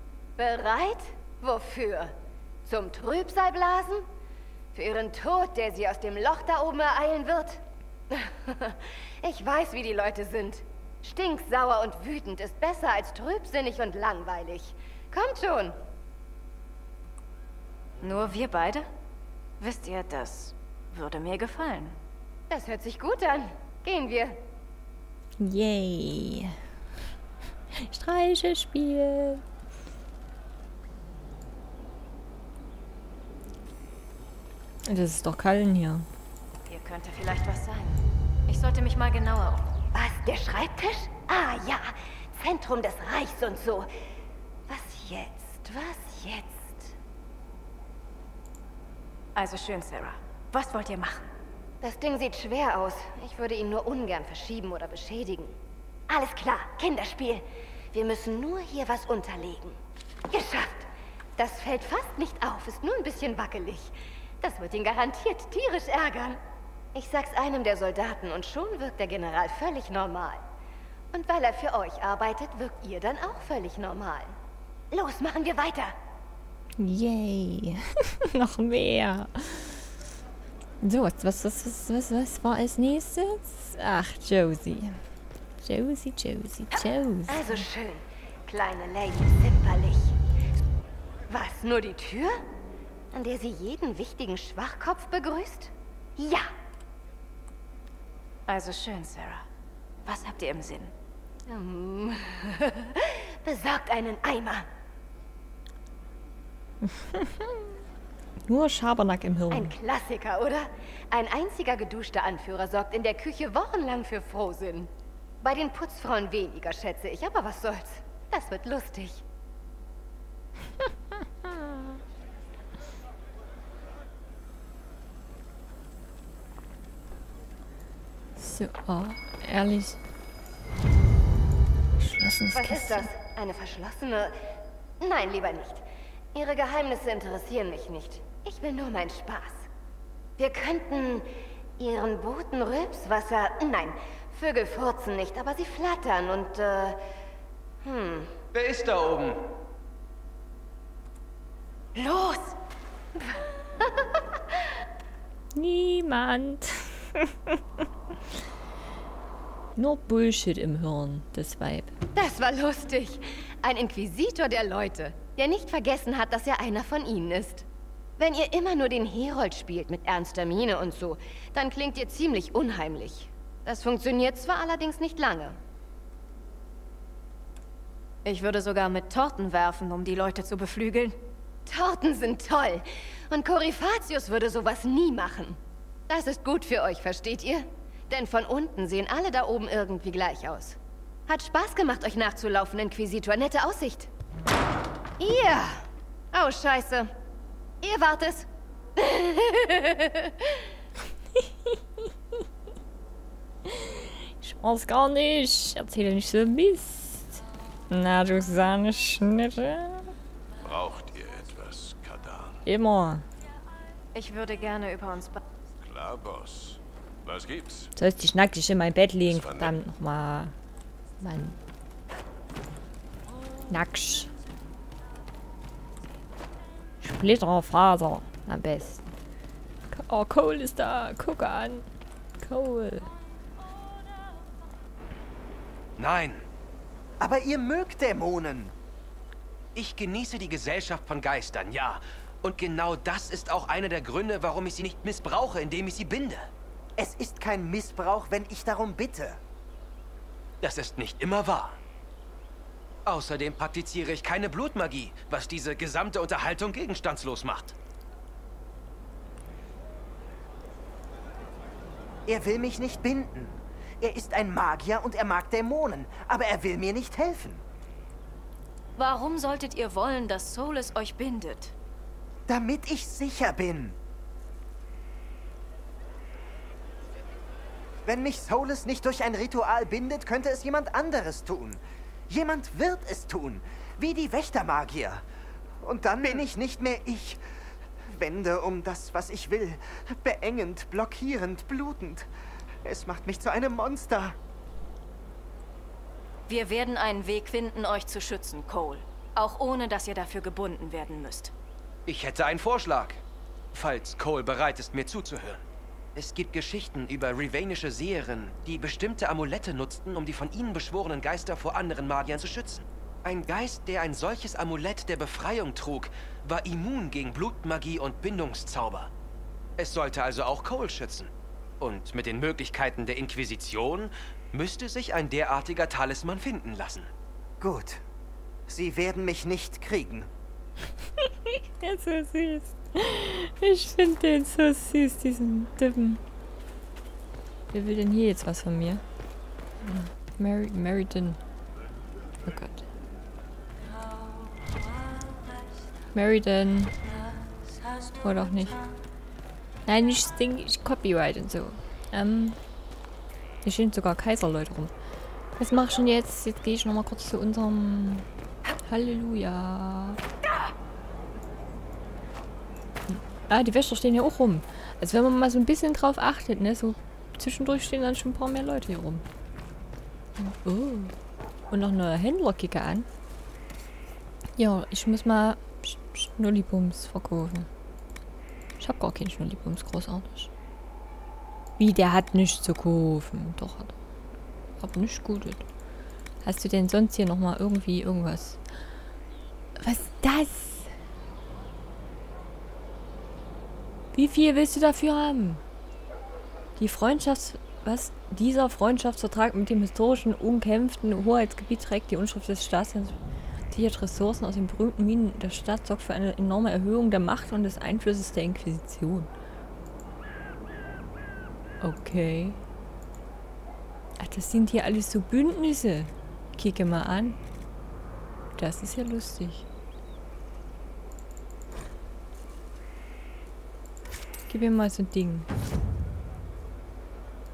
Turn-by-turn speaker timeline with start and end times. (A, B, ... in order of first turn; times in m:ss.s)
0:00.4-0:02.1 A
0:02.6-0:04.0 A
0:04.7-0:15.8 A
0:18.0-0:18.8 B
0:19.6-0:22.0 B
0:22.5-0:24.4 A
0:25.4-0:26.5 C
0:27.7-0:29.4 C
0:34.8-0:36.1 C
0:36.7-0:39.7 B
0:39.9-0:43.9 A
0:44.7-0:46.9 A
0:49.3-0:51.3 B
0:51.8-0:55.6 A
0:56.1-0:59.8 A
1:00.3-1:06.4 A
1:06.9-1:10.4 A
1:11.1-1:14.3 A
1:14.9-1:15.9 A
1:16.8-1:19.9 C
1:20.8-1:25.0 C
1:25.6-1:27.7 C
1:27.3-1:30.2 A
1:31.3-1:32.4 A
1:33.1-1:36.5 A
1:38.5-1:39.4 B
1:40.0-1:40.9 B
1:41.5-1:44.6 A
1:46.8-1:47.7 C
1:48.4-1:49.8 C
1:49.5-1:54.9 A
1:55.4-1:59.2 A
2:08.4-2:10.0 C
2:12.0-2:13.1 C
2:12.5-2:14.4 A
2:15.0-2:19.7 A
2:20.4-2:21.3 A
2:21.8-2:27.0 A
2:27.8-2:28.3 A
2:28.5-2:29.4 D
2:32.0-2:32.5 A
2:33.2-2:34.2 A
2:35.5-2:37.8 C
2:39.7-2:41.9 C
2:42.1-2:47.6 A
2:48.2-2:55.6 A
2:58.2-3:01.2 B
3:01.6-3:05.6 A
3:06.1-3:14.1 A
3:15.2-3:17.1 A
3:17.8-3:20.5 A
3:21.4-3:22.0 C
3:23.6-3:30.1 C
3:30.6-3:32.6 E
3:32.6-3:33.2 C
3:34.1-3:35.4 B
3:35.8-3:37.9 E
3:37.9-3:40.5 C
3:39.2-3:39.8 E
3:41.2-3:41.6 C
3:43.7-3:44.3 C
3:47.0-3:49.1 C
3:49.9-3:51.8 C
3:52.4-3:53.1 C
3:56.0-3:56.4 D
3:57.2-3:58.7 F
3:59.7-4:06.5 D
4:07.0-4:09.4 F
4:10.6-4:11.8 D
4:13.0-4:17.7 D
4:22.3-4:27.6 F
4:29.0-4:31.7 B
4:32.5-4:34.0 F
4:38.0-4:45.2 F
4:45.8-4:47.4 F
4:48.0-4:52.3 F
4:52.8-4:54.4 F
4:56.5-5:01.5 B
5:02.0-5:03.2 D
5:03.7-5:05.6 D
5:06.1-5:19.1 D
5:19.8-5:27.1 D
5:27.6-5:28.0 F
5:28.7-5:30.3 F
5:31.2-5:36.2 C
5:37.7-5:39.0 C
5:39.8-5:41.4 C
5:42.4-5:42.8 C
5:46.1-5:47.0 C
5:48.2-5:48.8 C
5:49.8-5:52.6 C
5:53.6-5:54.9 C
5:55.6-5:58.3 C
5:58.8-6:00.2 C
6:03.1-6:09.2 C
6:10.4-6:11.1 C
6:11.7-6:13.1 C
6:14.6-6:17.7 C
6:18.8-6:20.5 C
6:21.8-6:23.9 C
6:24.8-6:25.6 C
6:26.4-6:28.6 C
6:29.8-6:30.9 C
6:34.1-6:35.6 C
6:36.8-6:43.2 C
6:43.7-6:49.3 C
6:51.8-6:52.6 C
6:54.2-6:57.4 C
6:58.6-6:59.6 C
7:04.5-7:05.5 C